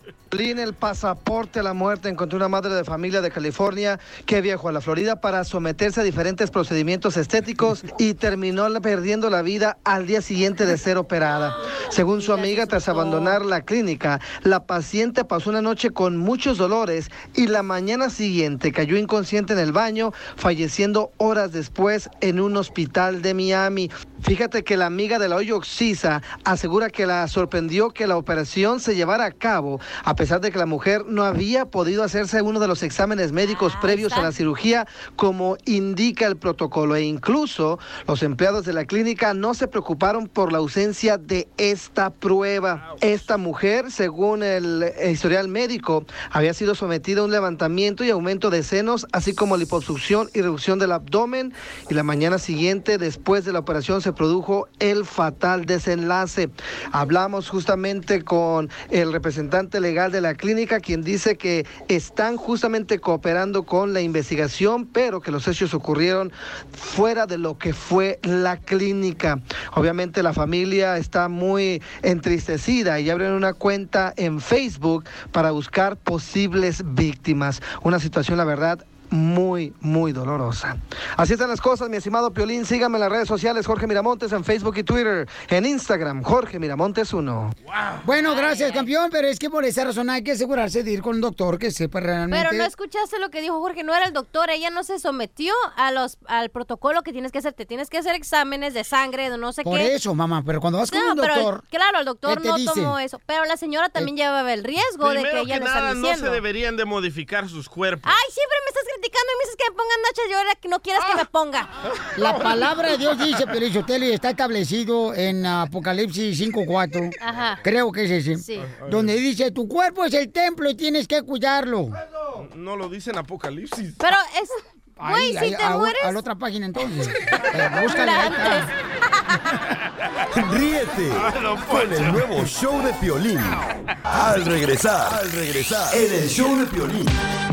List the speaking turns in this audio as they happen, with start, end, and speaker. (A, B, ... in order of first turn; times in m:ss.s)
0:00.3-1:27.5 A
0:12.1-0:13.4 B
0:33.4-0:34.3 B
0:42.7-0:43.2 C
1:27.7-1:28.0 C
1:28.0-1:32.7 D
1:28.2-1:28.9 B
1:32.3-1:39.9 B
1:39.6-1:41.6 D
1:40.9-1:46.4 B
1:42.2-1:43.0 D
1:45.0-1:48.2 C
1:48.0-1:51.7 B
1:52.0-1:52.7 C
1:52.2-2:02.0 D
1:57.2-1:57.6 B
1:58.4-1:58.7 B
1:58.7-1:59.1 C
2:02.4-2:04.0 C
2:04.0-2:06.2 B
2:05.0-2:08.7 D
2:07.8-2:08.7 B
2:10.3-2:17.2 E
2:11.2-2:12.3 C